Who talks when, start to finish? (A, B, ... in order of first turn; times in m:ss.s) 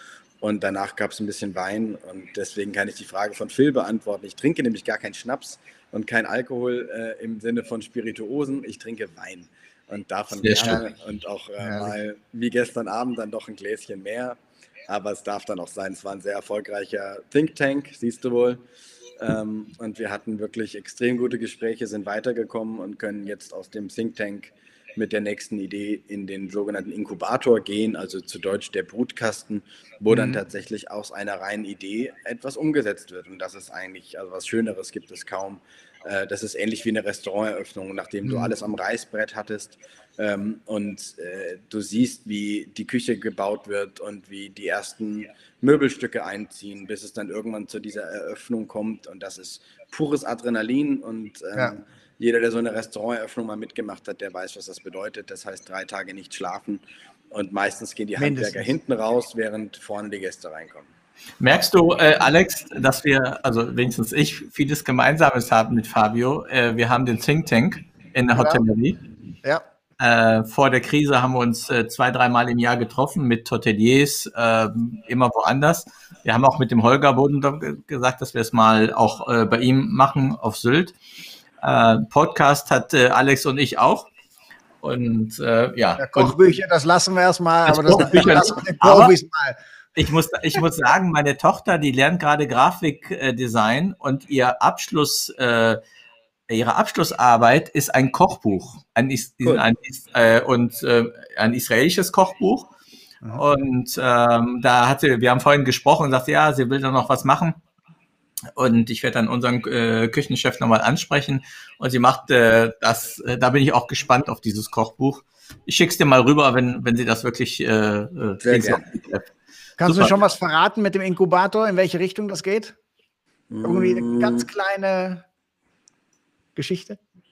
0:00.4-0:18.6 A
0:10.3-0:10.8 B
0:11.6-0:11.9 C
0:19.2-1:00.9 A
0:30.1-0:30.4 C
0:38.2-0:38.5 C
0:58.2-0:58.7 C
1:01.4-1:09.0 B
1:08.4-1:08.6 C
1:10.0-1:21.0 B
1:21.6-1:24.1 B
1:24.8-1:26.6 B
1:26.0-1:29.6 C
1:27.7-1:29.1 B
1:30.0-1:35.8 B
1:36.5-1:42.7 B
1:43.3-1:47.6 B
1:48.6-1:59.3 B
1:58.4-1:58.8 A
1:59.8-2:02.8 C
1:59.8-2:00.2 B
2:03.5-2:04.5 A
2:03.6-2:05.2 C
2:06.6-2:07.0 C